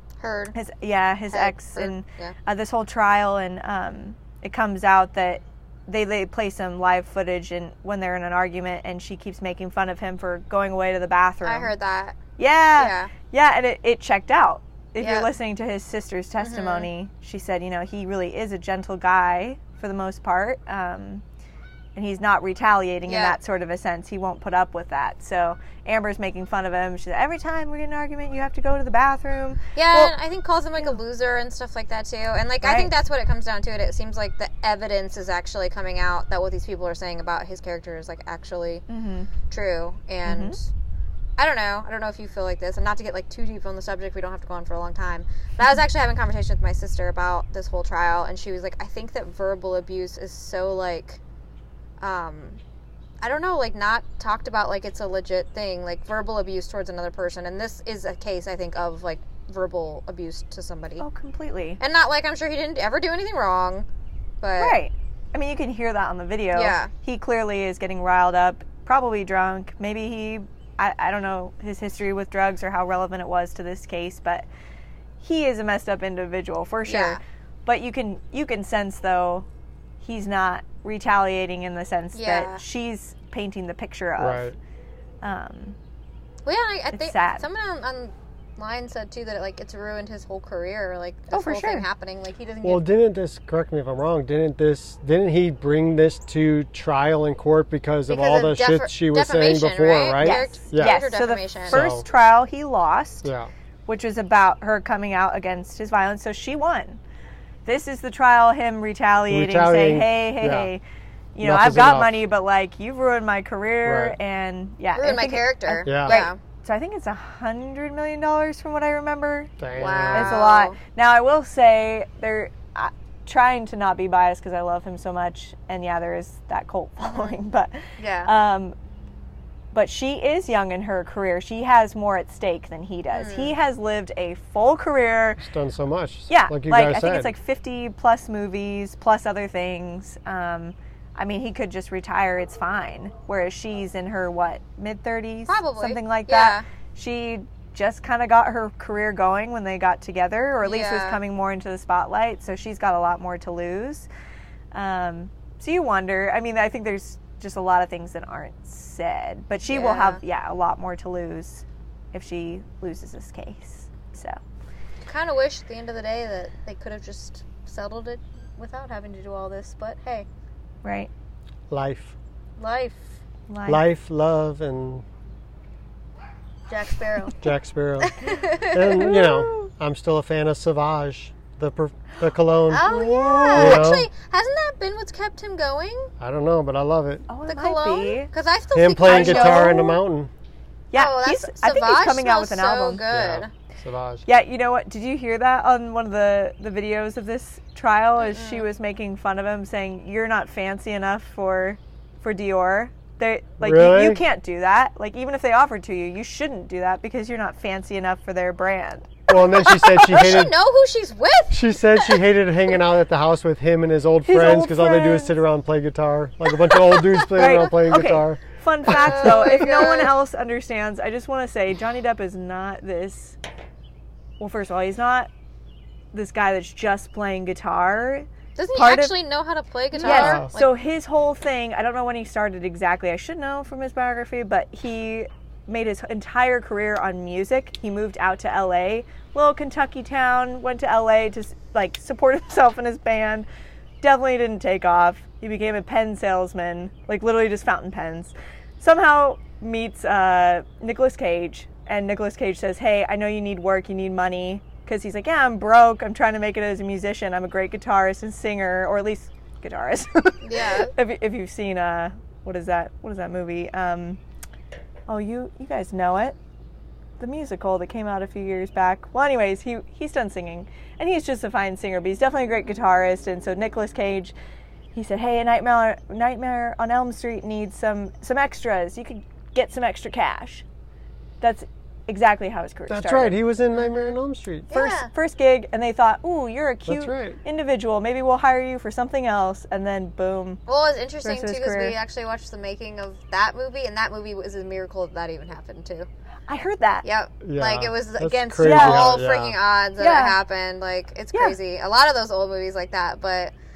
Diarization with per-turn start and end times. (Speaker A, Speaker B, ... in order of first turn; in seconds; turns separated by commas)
Speaker A: 0.2-0.5, Speaker B: 0.5-11.7, Speaker A: 1.3-2.4, Speaker A: 11.4-12.2, Speaker B: 12.4-21.2, Speaker A: 12.8-13.1, Speaker A: 15.0-15.3, Speaker A: 16.4-16.9, Speaker B: 21.9-30.1, Speaker A: 23.0-23.4, Speaker A: 29.7-38.8, Speaker B: 32.6-32.9, Speaker B: 38.9-39.3, Speaker A: 39.5-40.7, Speaker B: 40.2-40.5, Speaker A: 41.4-51.2, Speaker A: 52.0-52.6, Speaker A: 53.2-61.0, Speaker B: 61.0-61.8, Speaker A: 61.8-63.9, Speaker A: 64.4-64.8, Speaker B: 64.5-74.5, Speaker A: 66.5-66.9, Speaker B: 75.2-79.5, Speaker A: 76.8-77.2, Speaker B: 80.0-84.5, Speaker A: 82.1-82.6, Speaker C: 84.2-84.5, Speaker B: 85.2-85.8, Speaker A: 86.4-92.8, Speaker B: 86.9-87.5, Speaker B: 91.3-91.8, Speaker C: 92.6-101.0, Speaker A: 98.1-101.8, Speaker B: 100.2-103.3, Speaker C: 101.7-102.0, Speaker C: 103.2-103.5, Speaker B: 103.9-107.0, Speaker B: 107.6-110.8, Speaker C: 109.3-110.7, Speaker B: 111.3-128.7, Speaker C: 111.4-112.2, Speaker C: 113.8-114.2, Speaker A: 114.9-116.4, Speaker C: 115.8-116.2, Speaker C: 119.6-120.3, Speaker A: 119.7-120.8, Speaker A: 127.0-127.4, Speaker A: 128.0-128.3, Speaker B: 129.7-135.4, Speaker A: 133.1-133.6, Speaker C: 135.4-137.3, Speaker B: 136.3-154.1, Speaker A: 145.5-146.7, Speaker A: 150.6-151.2, Speaker B: 154.7-164.4, Speaker A: 159.6-160.2, Speaker A: 165.1-170.3, Speaker B: 170.8-171.1, Speaker C: 171.7-172.2, Speaker A: 172.6-173.2, Speaker B: 173.5-173.8, Speaker C: 173.7-175.0, Speaker A: 176.7-177.4, Speaker C: 177.4-182.9, Speaker A: 178.0-179.4, Speaker B: 179.1-179.7, Speaker A: 182.7-186.1, Speaker B: 182.9-183.8, Speaker C: 183.5-184.1, Speaker C: 186.2-187.3, Speaker B: 187.3-188.3, Speaker A: 187.4-190.0, Speaker C: 188.7-190.3, Speaker B: 189.0-189.9, Speaker B: 190.9-193.0, Speaker A: 190.9-193.5, Speaker C: 193.1-194.2, Speaker B: 194.2-209.2, Speaker A: 198.2-198.7, Speaker C: 203.6-204.2, Speaker C: 209.3-210.6, Speaker A: 209.5-212.2, Speaker C: 211.5-219.5, Speaker B: 214.2-215.4, Speaker B: 217.3-223.4, Speaker A: 218.9-220.1, Speaker B: 224.4-225.3, Speaker B: 226.1-229.2, Speaker A: 228.6-230.8, Speaker B: 229.9-243.5, Speaker C: 230.1-230.5, Speaker B: 244.0-264.2, Speaker A: 260.4-260.9, Speaker B: 265.1-266.4, Speaker B: 267.2-274.3, Speaker B: 274.9-280.6, Speaker B: 281.4-283.4, Speaker C: 282.9-284.7, Speaker A: 284.7-285.1, Speaker B: 284.7-290.6, Speaker C: 286.9-287.4, Speaker A: 290.7-296.1, Speaker B: 291.2-292.0, Speaker B: 296.5-297.1, Speaker A: 297.0-303.5, Speaker C: 297.4-299.6, Speaker B: 298.6-299.2, Speaker B: 300.0-300.4, Speaker B: 301.3-301.6